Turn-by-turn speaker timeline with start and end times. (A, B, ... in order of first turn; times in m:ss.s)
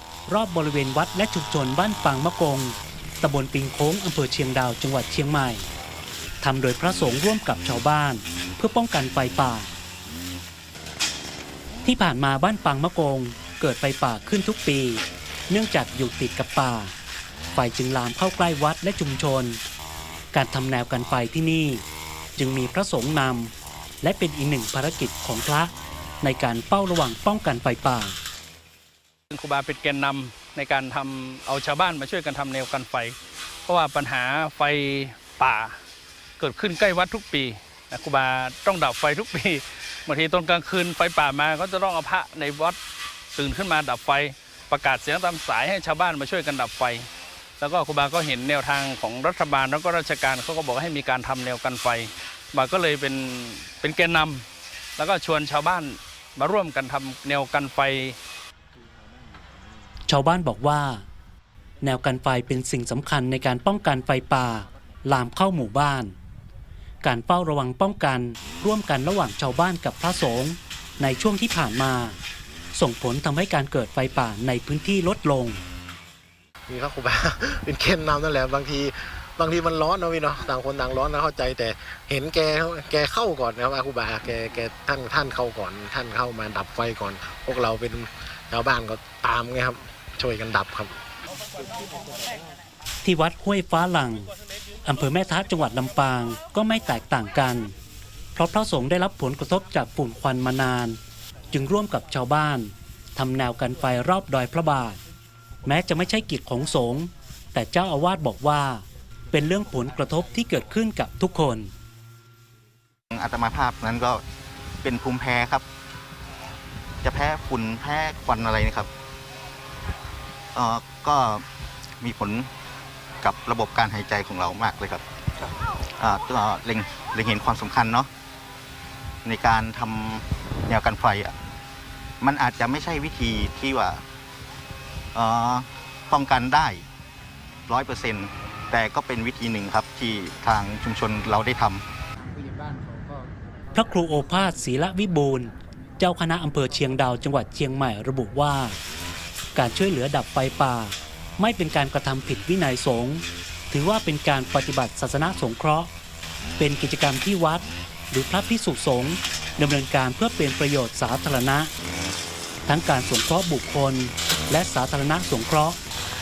0:00.3-0:05.7 A
0:06.4-0:09.7 A
0:11.8-0:16.9 A
0:17.5-0:19.6 A
0:20.3-0:21.8 A
0:22.4-0:28.2 A
0:29.3-0:35.8 B
0:36.4-0:42.8 B
0:43.3-0:47.1 B
0:47.6-0:54.4 B
0:55.0-0:58.2 B
1:00.1-1:01.0 A
1:01.8-1:06.2 A
1:07.0-1:12.2 A
1:12.8-1:15.6 A
1:16.7-1:30.9 C
1:33.0-1:34.3 A
1:34.8-1:37.7 A
1:38.4-1:41.0 A
1:41.5-1:45.0 A
1:45.6-1:51.7 A
1:53.1-1:54.2 D
1:54.8-1:55.6 D
1:57.0-1:58.9 D
2:00.6-2:01.4 D
2:02.0-2:02.5 D
2:03.2-2:05.0 D
2:06.0-2:08.1 D
2:09.2-2:11.3 D
2:12.2-2:14.0 D
2:15.2-2:16.9 D
2:17.7-2:21.9 D
2:23.7-2:28.8 A
2:29.6-2:35.9 A
2:36.6-2:41.7 A
2:42.7-2:45.8 A